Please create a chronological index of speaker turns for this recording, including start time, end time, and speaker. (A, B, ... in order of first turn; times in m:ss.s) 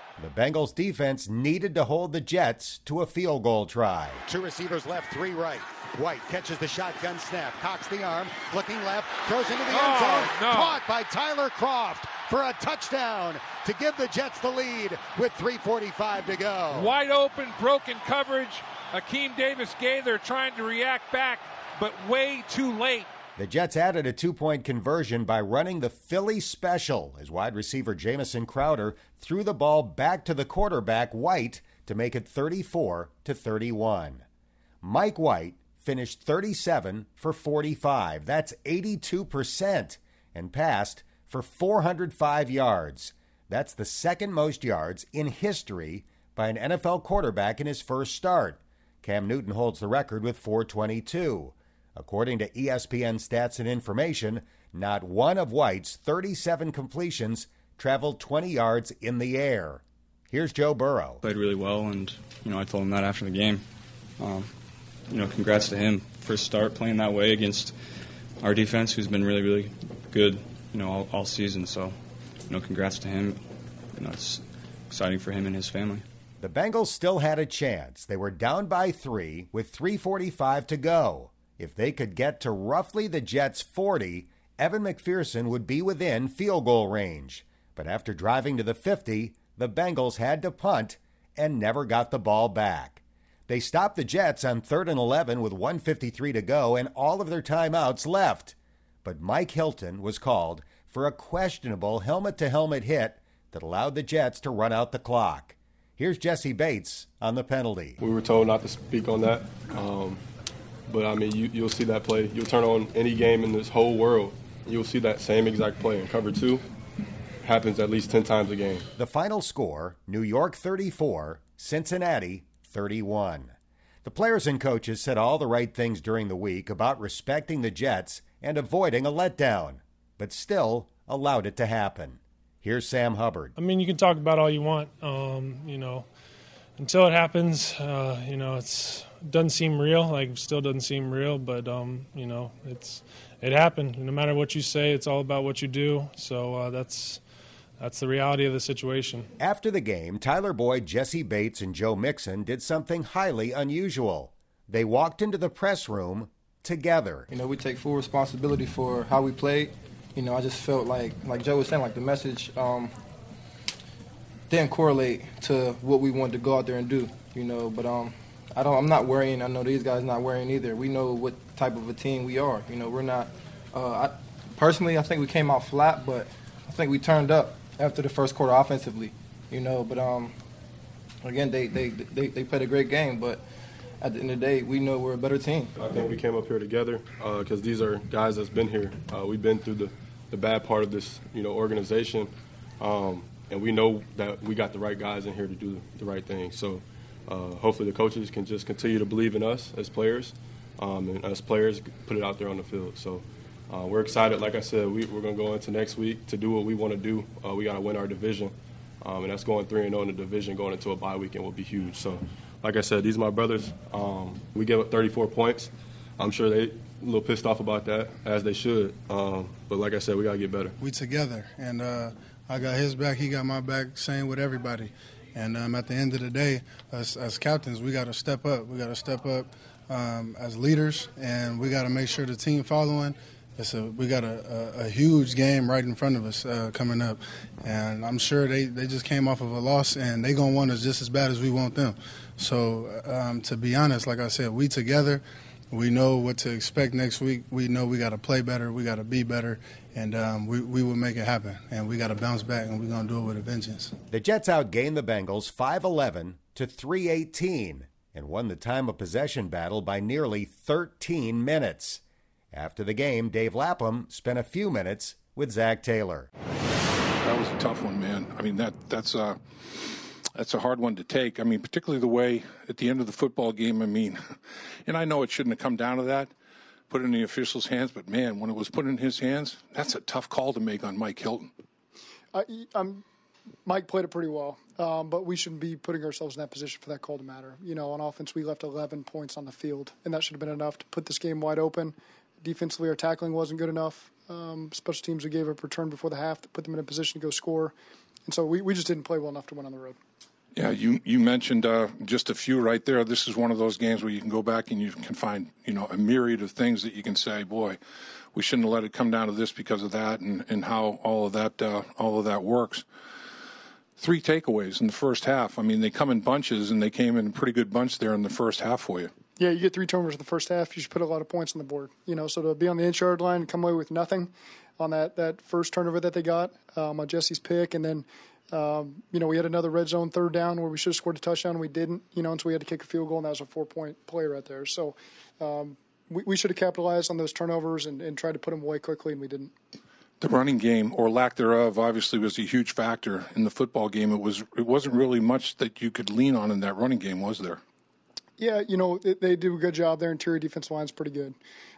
0:00.2-0:04.2 A
0:04.3-0:16.9 B
0:09.7-0:10.8 C
0:16.7-0:23.1 C
0:23.4-0:34.2 A
0:34.8-1:01.2 A
1:01.2-1:03.6 D
1:04.2-1:04.5 D
1:05.1-1:07.8 D
1:08.4-1:12.0 D
1:12.5-1:13.4 D
1:13.9-1:16.0 D
1:16.4-1:48.0 A
1:48.0-1:50.2 E
1:50.9-1:56.6 E
1:57.4-1:58.9 E
1:59.0-2:13.6 A
2:13.6-2:16.1 F
2:16.8-2:27.2 F
2:27.8-2:29.3 F
2:29.4-2:37.3 A
2:37.3-2:42.9 G
2:44.5-3:00.4 G
3:01.2-3:03.4 G
3:04.0-3:05.7 G
3:05.8-3:40.8 E
3:40.8-4:14.0 H
4:14.1-4:26.3 A
4:27.2-4:34.3 I
4:34.9-4:36.3 I
4:36.9-4:41.5 I
4:42.3-4:43.0 J
4:43.6-4:57.8 J
4:58.3-5:00.0 J
5:00.6-5:07.8 I
5:08.3-5:12.8 I
5:14.0-5:19.1 I
5:19.4-5:39.5 J
5:40.2-5:47.6 I
5:48.4-5:51.4 J